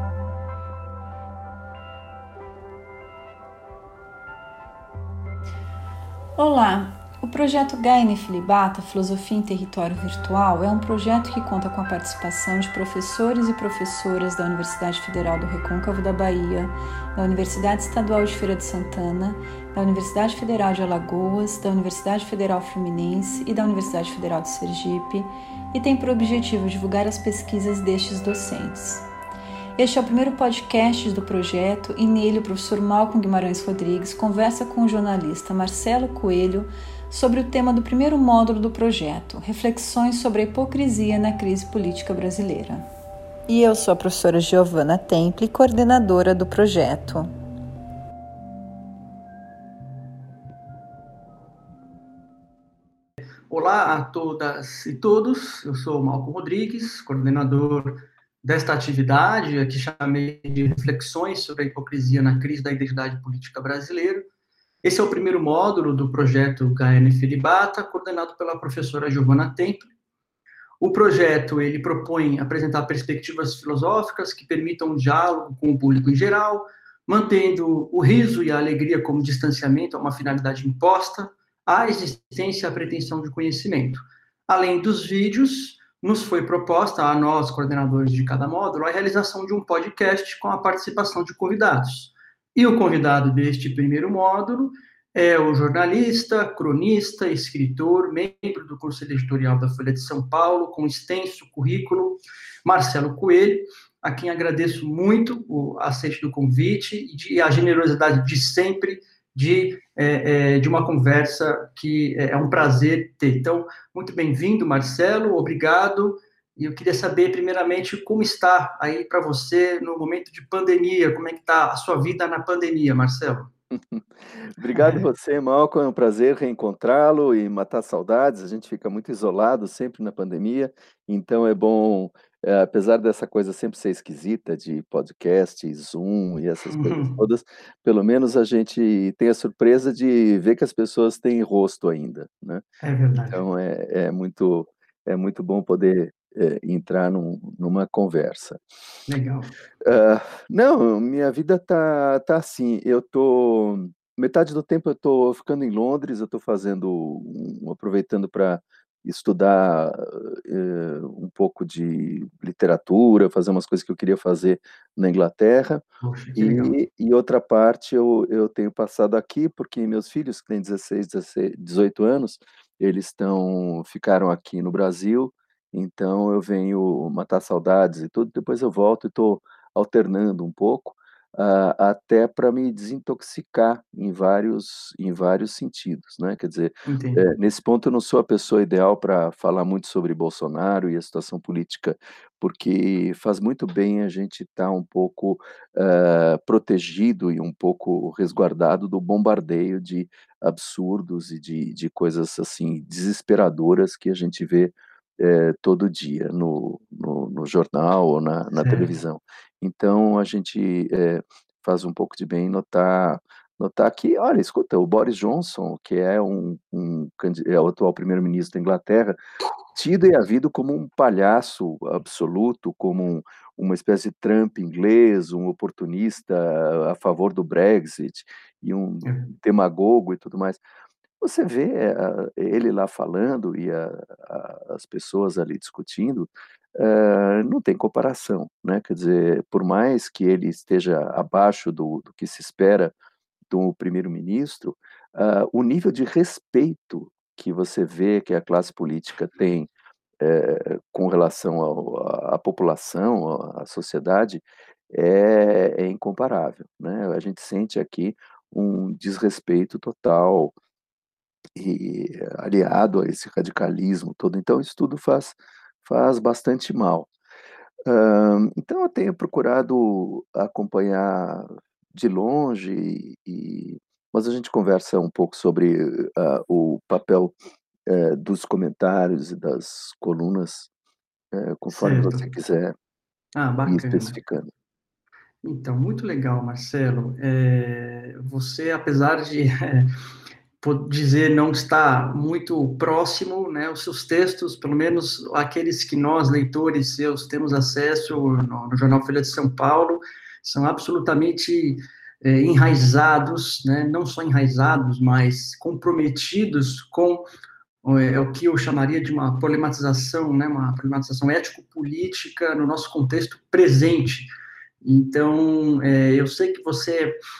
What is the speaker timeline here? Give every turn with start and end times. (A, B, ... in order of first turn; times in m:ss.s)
0:06.4-0:29.0 A
0:29.8-0:42.8 A
0:43.5-0:47.3 A
0:53.5-1:04.3 B
1:04.8-1:09.9 B
1:10.8-2:03.5 B
2:03.7-2:22.6 C
2:04.8-2:05.0 B
2:16.7-2:17.2 B
2:22.8-2:23.4 B
2:23.3-2:28.6 C
2:29.1-2:29.5 B
2:29.8-2:45.8 C
2:46.0-2:46.7 B
2:46.4-3:39.2 C
3:06.9-3:07.2 B
3:28.6-3:28.9 B
3:39.7-3:50.6 C
3:51.2-4:02.9 C
4:03.5-4:09.7 C
4:10.2-4:20.5 C
4:21.6-4:27.1 C
4:27.8-4:37.3 C
4:37.9-4:40.7 C
4:41.3-4:42.7 C
4:41.7-4:42.3 B
4:43.3-4:44.1 B
4:43.6-4:44.5 C
4:45.4-4:49.9 B
4:50.6-5:07.2 B
5:07.8-5:14.3 B
5:14.8-5:17.1 B